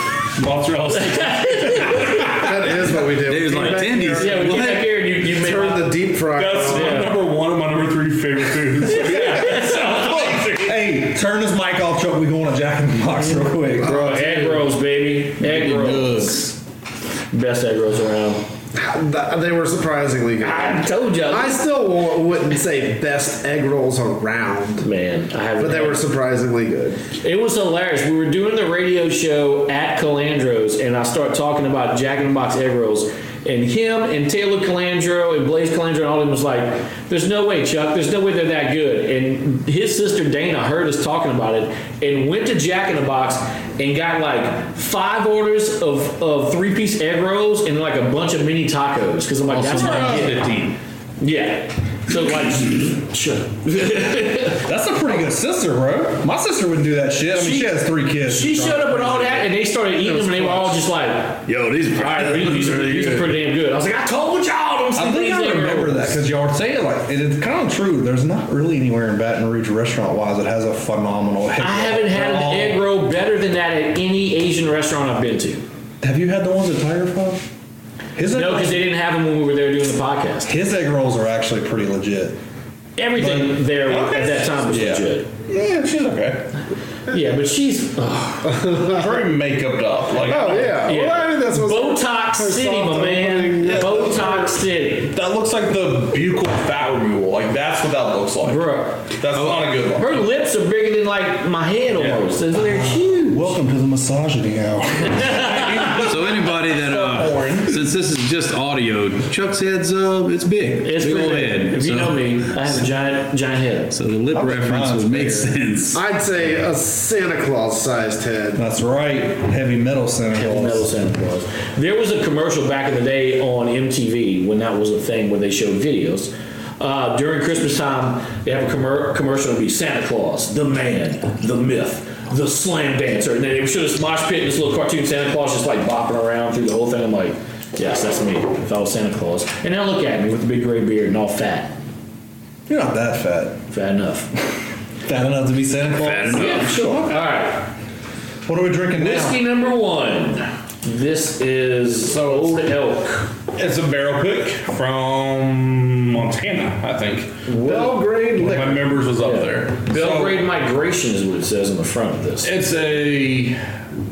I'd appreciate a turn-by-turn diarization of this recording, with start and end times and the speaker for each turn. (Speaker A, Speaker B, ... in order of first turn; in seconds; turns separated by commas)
Speaker A: 0.4-2.3, Speaker B: 1.1-2.3, Speaker C: 2.3-7.1, Speaker D: 3.3-4.9, Speaker B: 4.2-6.0, Speaker A: 6.3-10.7, Speaker B: 6.7-7.2, Speaker B: 8.9-10.2, Speaker E: 9.1-14.3, Speaker B: 13.8-16.5, Speaker C: 13.8-14.6, Speaker D: 15.4-16.6, Speaker B: 17.3-18.4, Speaker C: 18.8-24.9, Speaker B: 20.4-21.6, Speaker B: 24.8-26.0, Speaker C: 25.6-27.0, Speaker B: 27.2-50.5, Speaker D: 49.5-50.8, Speaker B: 51.2-54.6, Speaker E: 54.6-59.5, Speaker B: 57.3-66.2, Speaker C: 60.0-60.8, Speaker D: 61.5-63.4, Speaker E: 65.0-72.8, Speaker B: 71.6-75.7, Speaker E: 76.0-77.4, Speaker E: 78.2-78.9, Speaker B: 78.3-80.5, Speaker E: 80.5-82.4, Speaker B: 83.0-85.3, Speaker E: 83.2-83.7, Speaker A: 83.9-86.5, Speaker B: 87.1-88.7, Speaker C: 88.5-89.2, Speaker A: 88.8-90.8, Speaker C: 90.2-94.5, Speaker B: 90.8-95.2, Speaker A: 93.6-94.1, Speaker A: 95.1-100.2, Speaker B: 98.4-99.1, Speaker D: 99.3-99.8, Speaker B: 100.0-103.5, Speaker E: 103.0-106.1, Speaker B: 105.1-105.9, Speaker D: 106.0-112.7, Speaker A: 106.7-107.8, Speaker B: 110.8-113.9, Speaker D: 113.9-116.0, Speaker E: 114.3-115.5, Speaker C: 115.9-118.6, Speaker E: 118.6-120.9, Speaker B: 120.3-141.8, Speaker E: 142.7-143.6, Speaker B: 143.7-144.3, Speaker E: 145.1-147.0, Speaker D: 146.0-146.9, Speaker B: 146.3-147.7, Speaker E: 148.5-149.4, Speaker B: 149.0-153.3, Speaker A: 152.0-152.7, Speaker A: 153.5-157.4, Speaker C: 157.5-159.0, Speaker B: 157.5-157.9, Speaker A: 158.4-160.4, Speaker B: 159.2-162.5, Speaker A: 162.4-163.6